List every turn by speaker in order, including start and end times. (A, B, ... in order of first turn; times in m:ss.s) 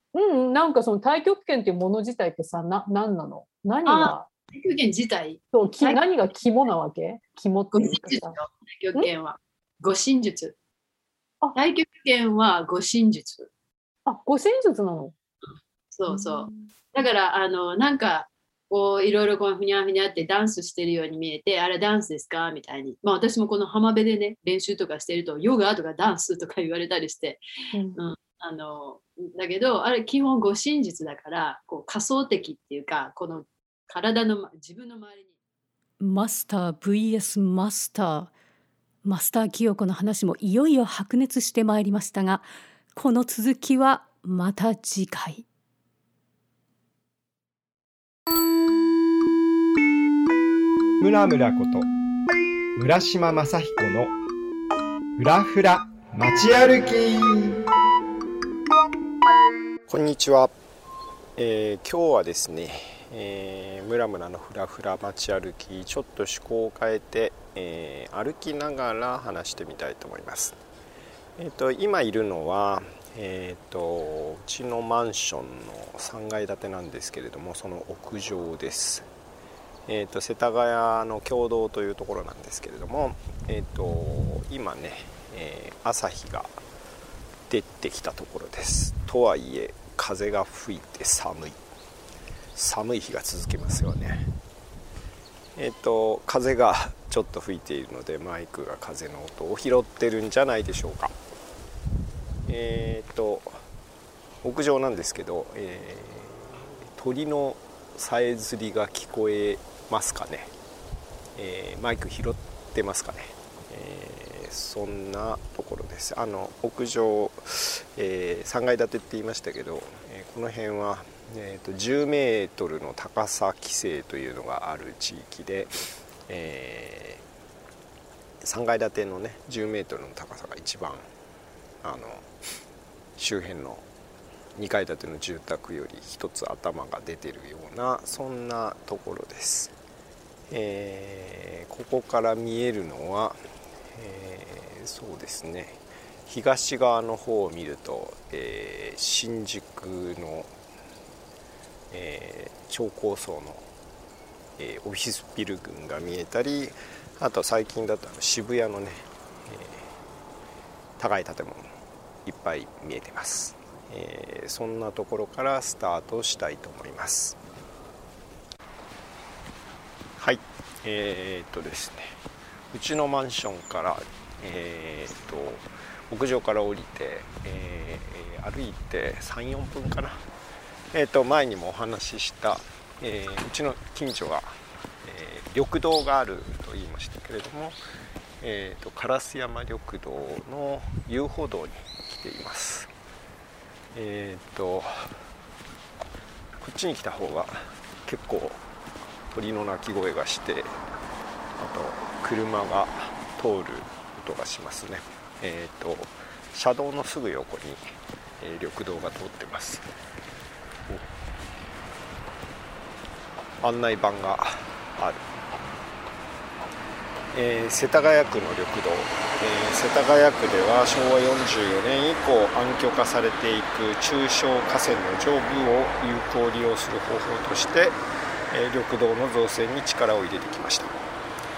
0:00.1-0:04.3 A
0:03.9-0:06.0 B
0:05.5-0:08.4 A
0:07.7-0:10.6 B
0:11.6-0:13.5 B
0:14.1-0:15.2 A
0:15.9-0:27.4 B
0:16.1-0:16.7 A
0:27.7-0:28.0 A
0:28.0-0:35.3 B
0:36.0-0:38.3 C
0:39.0-0:45.5 C
0:51.0-0:51.9 D
0:52.8-0:54.1 D
0:55.2-0:57.6 D
0:59.9-1:00.5 E
1:01.4-1:10.6 E
1:11.4-1:19.1 E
1:19.9-1:26.5 E
1:27.5-1:31.6 E
1:32.5-1:34.3 E
1:35.6-1:41.2 E
1:42.5-1:43.5 E
1:44.4-1:50.5 E
1:51.4-2:05.7 E
2:06.3-2:07.2 E
2:08.4-2:11.1 E
2:11.8-2:12.3 E
2:13.2-2:13.9 E
2:14.6-2:19.7 E
2:20.5-2:23.4 E
2:23.9-2:30.5 E
2:31.9-2:33.6 E
2:34.6-2:39.9 E
2:41.0-2:41.7 E
2:42.2-2:47.4 E
2:50.2-2:52.2 E
2:52.7-3:00.2 E
3:00.9-3:04.5 E
3:05.0-3:07.8 E
3:08.4-3:12.9 E
3:13.9-3:15.1 E
3:16.6-3:18.6 E
3:19.3-3:20.8 E
3:21.6-3:27.8 E
3:28.4-3:29.9 E
3:33.6-3:35.3 E
3:37.3-3:48.0 E
3:48.5-3:51.0 E